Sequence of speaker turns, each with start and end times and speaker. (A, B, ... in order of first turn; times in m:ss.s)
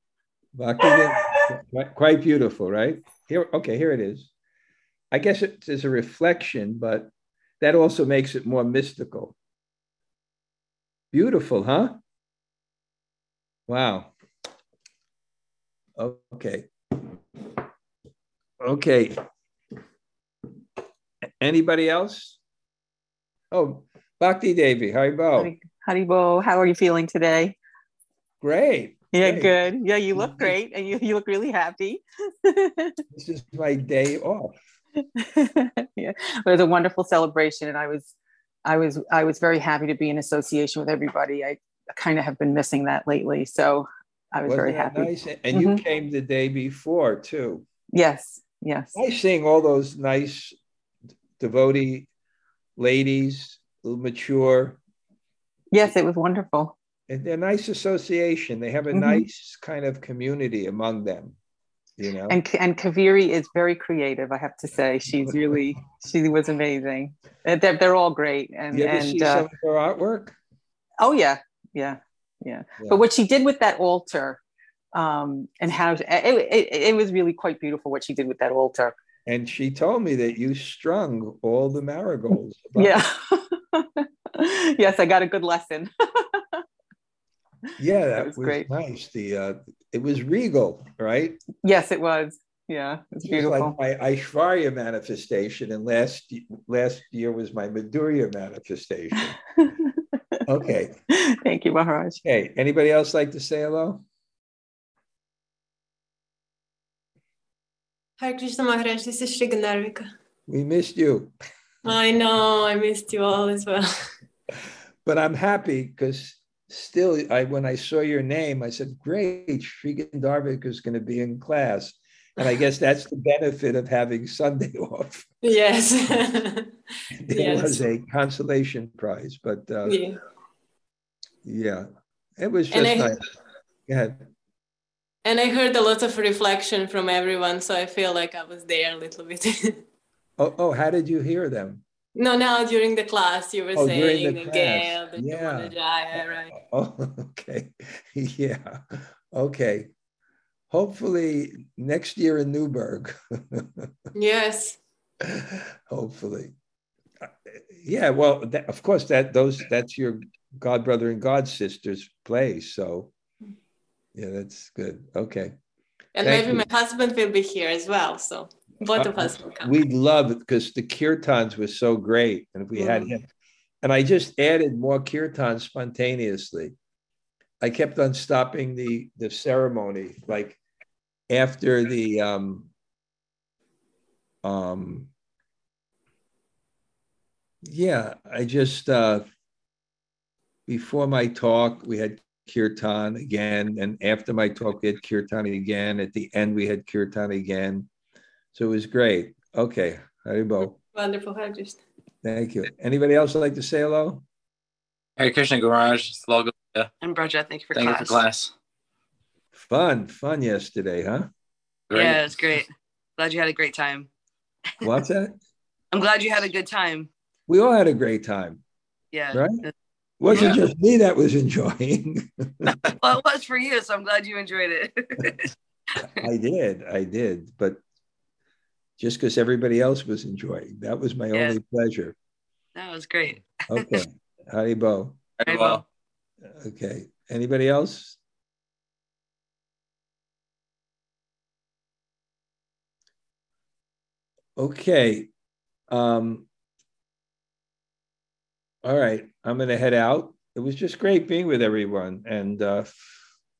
0:00.6-0:04.3 A
0:05.1-0:09.4 A
0:11.1-0:12.0 A
0:13.7-0:14.1 A
0:16.0-0:16.7 A
0:18.6-0:19.2 A
0:21.4-0:22.4 A
0:23.5-0:25.5 A
0:25.4-0:27.6 B
0:28.4-0:29.6 A
0:29.1-0:33.0 B
0:30.2-0:30.6 A
0:33.1-0:34.6 A
0:35.2-0:38.1 B
0:38.6-0:45.8 B
0:44.5-0:47.7 A
0:47.9-0:49.0 B
0:49.0-0:50.6 A
0:51.4-0:52.1 A
0:52.8-0:54.8 A
0:55.7-0:56.8 B
0:57.1-1:01.4 A
0:58.9-0:59.2 B
1:02.0-1:02.4 A
1:02.3-1:09.5 B
1:08.7-1:10.4 A
1:11.0-1:14.4 B
1:14.9-1:19.0 B
1:19.3-1:23.0 A
1:22.8-1:26.6 B
1:27.8-1:31.4 A
1:28.2-1:28.7 B
1:31.6-1:33.8 B
1:33.2-1:39.4 A
1:40.5-1:41.0 A
1:41.2-1:42.2 B
1:42.2-1:44.0 A
1:48.2-1:50.1 C
1:50.5-1:51.4 A
1:51.8-1:54.1 C
1:55.0-2:05.3 A
2:05.4-2:06.8 C
2:07.2-2:10.0 A
2:07.3-2:07.8 C
2:09.9-2:10.2 C
2:11.4-2:11.9 A
2:12.4-2:13.2 A
2:12.7-2:13.2 C
2:13.9-2:14.2 A
2:15.2-2:19.8 C
2:20.4-2:21.8 A
2:22.2-2:26.5 C
2:23.7-2:29.9 A
2:30.7-2:33.9 A
2:34.2-2:34.8 C
2:35.2-2:36.5 A
2:37.2-2:43.1 A
2:44.2-2:45.5 A
2:46.2-2:49.7 C
2:46.2-2:46.7 A
2:48.9-2:53.3 A
2:52.8-2:53.1 C
2:53.8-2:56.7 A
2:57.6-3:00.6 A
3:01.3-3:02.7 A
3:04.4-3:05.1 A
3:07.6-3:09.3 A
3:10.7-3:17.9 A
3:18.5-3:20.8 A
3:20.9-3:21.8 C
3:22.2-3:24.2 A
3:25.2-3:26.9 D
3:27.0-3:28.2 E
3:27.7-3:28.5 D
3:29.6-3:31.3 A
3:31.9-3:32.2 D
3:31.9-3:32.7 E
3:33.2-3:34.1 E
3:34.8-3:35.4 A
3:35.9-3:37.1 E
3:37.5-3:38.6 A
3:39.1-3:39.7 E
3:39.3-3:39.6 A
3:40.2-3:42.7 A
3:40.3-3:40.6 E
3:43.0-3:45.5 E
3:46.2-3:47.8 A
3:49.0-3:52.2 A
3:51.3-3:51.6 E
3:52.8-3:54.0 E
3:53.7-3:55.2 A
3:55.4-3:55.8 E
3:56.6-3:58.2 A
4:04.6-4:05.3 A
4:05.9-4:06.5 A
4:08.8-4:13.2 A